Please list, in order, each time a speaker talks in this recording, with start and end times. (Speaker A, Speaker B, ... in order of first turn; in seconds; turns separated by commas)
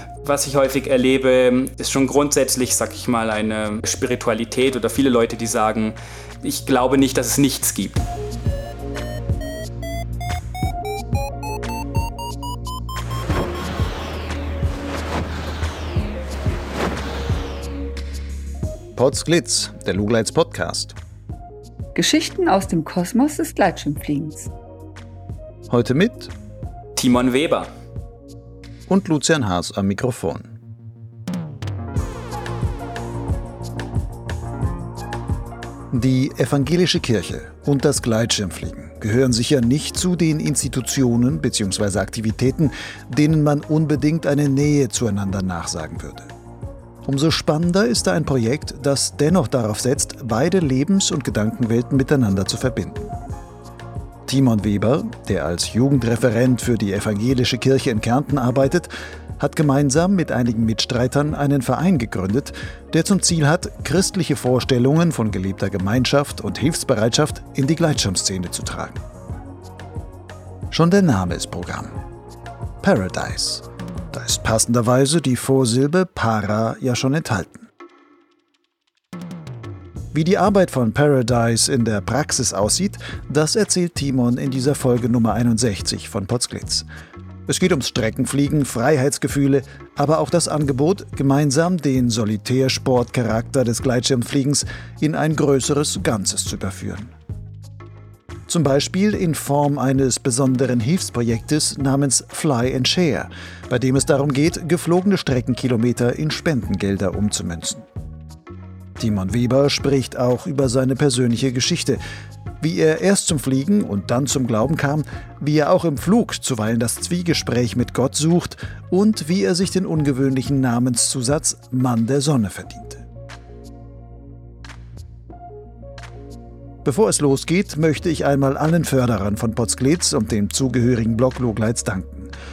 Speaker A: 0.2-8.0, Speaker B: 18.9-20.9, Speaker C: 21.9-24.5, Speaker B: 25.7-26.3, Speaker A: 26.9-27.7, Speaker B: 28.9-30.5, Speaker B: 35.9-46.3, Speaker B: 47.0-53.1, Speaker B: 54.3-69.0, Speaker B: 70.7-72.0, Speaker B: 72.8-77.7, Speaker B: 80.1-86.9, Speaker B: 87.5-97.1, Speaker B: 98.5-107.8, Speaker B: 109.0-112.0, Speaker B: 112.6-123.0, Speaker B: 126.8-132.3